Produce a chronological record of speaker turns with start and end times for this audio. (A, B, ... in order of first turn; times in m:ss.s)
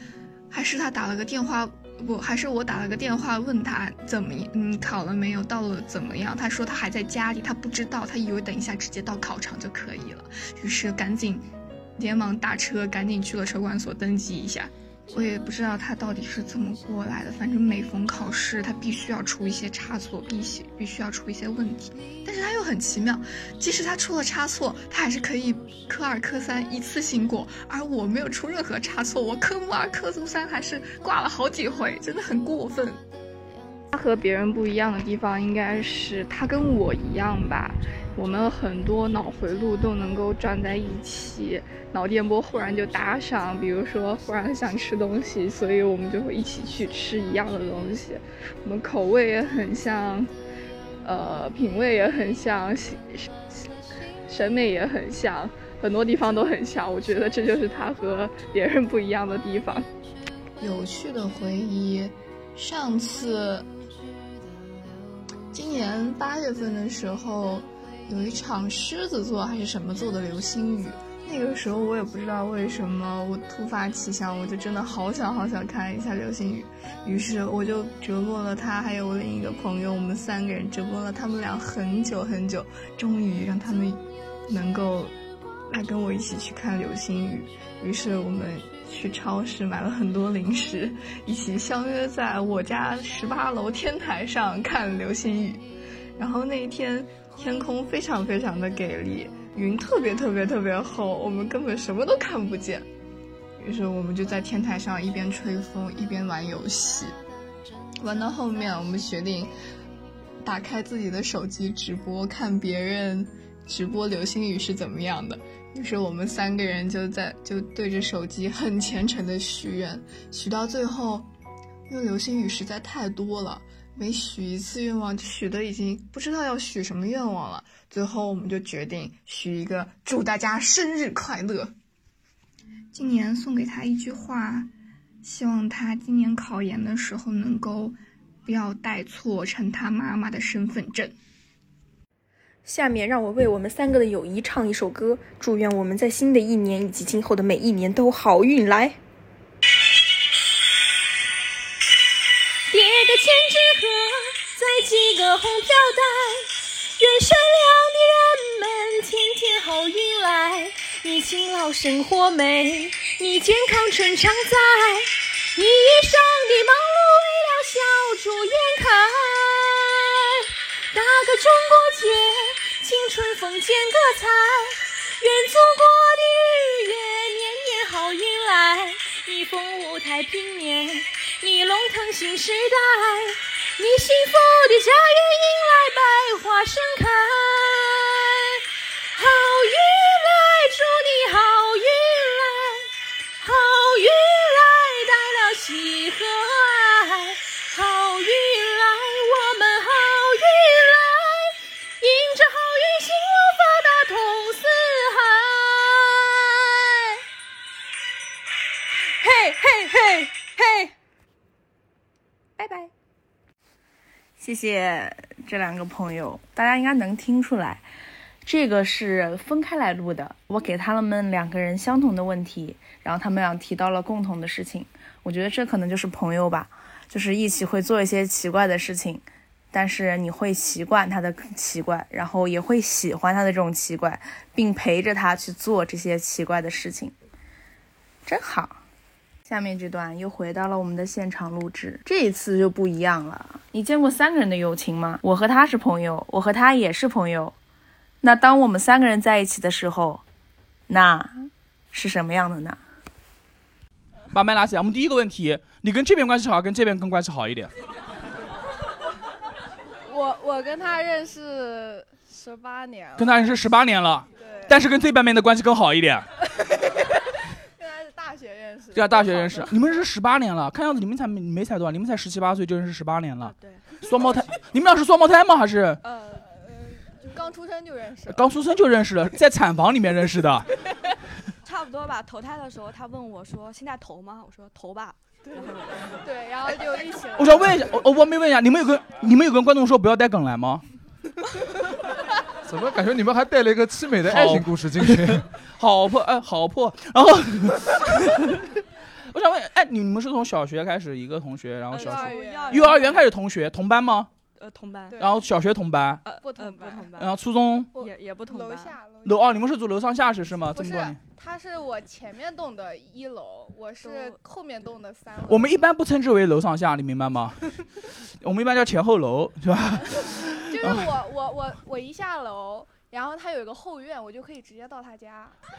0:00.5-0:33.0 A
0:33.9-0:50.3 A
0:51.0-0:53.3 A
0:54.3-0:59.8 A
1:00.6-1:03.7 A
1:05.5-1:25.1 A
1:25.7-1:42.9 A
1:43.6-1:47.1 A
1:48.0-1:49.5 A
1:50.4-2:01.3 A
2:01.9-2:11.7 A
2:12.9-2:14.7 A
2:15.2-2:21.1 A
2:22.6-2:29.0 B
2:32.7-2:36.4 C
2:37.0-2:38.6 C
2:39.5-2:49.9 C
2:50.9-3:08.2 C
3:09.2-3:12.8 C
3:13.4-3:26.1 C
3:34.4-3:37.9 D
3:38.4-3:57.1 D
3:58.2-3:58.8 D
3:59.4-4:07.5 D
4:08.2-4:10.2 D
4:10.9-4:12.8 D
4:14.3-4:17.7 E
4:20.1-4:23.4 F
4:23.2-4:26.3 E
4:24.4-4:24.8 F
4:26.7-4:27.1 F
4:27.8-4:29.8 F
4:28.9-4:36.0 E
4:33.4-4:33.9 G
4:36.0-4:36.4 G
4:36.2-4:38.5 F
4:38.3-4:40.7 E
4:41.6-4:46.1 G
4:46.2-4:47.8 F
4:47.4-4:50.8 E
4:52.6-4:55.4 H
4:54.3-4:58.4 E
4:59.3-5:04.3 E
5:01.9-5:03.1 F
5:01.9-5:03.2 G
5:04.6-5:05.2 G
5:05.1-5:05.5 F
5:05.2-5:06.2 E
5:06.2-5:07.3 G
5:06.3-5:07.1 F
5:07.2-5:07.9 E
5:07.9-5:09.6 F
5:08.0-5:09.0 G
5:09.2-5:11.2 E
5:10.7-5:15.8 F
5:14.0-5:14.4 G
5:15.5-5:17.6 E
5:18.4-5:21.1 E
5:20.2-5:25.6 F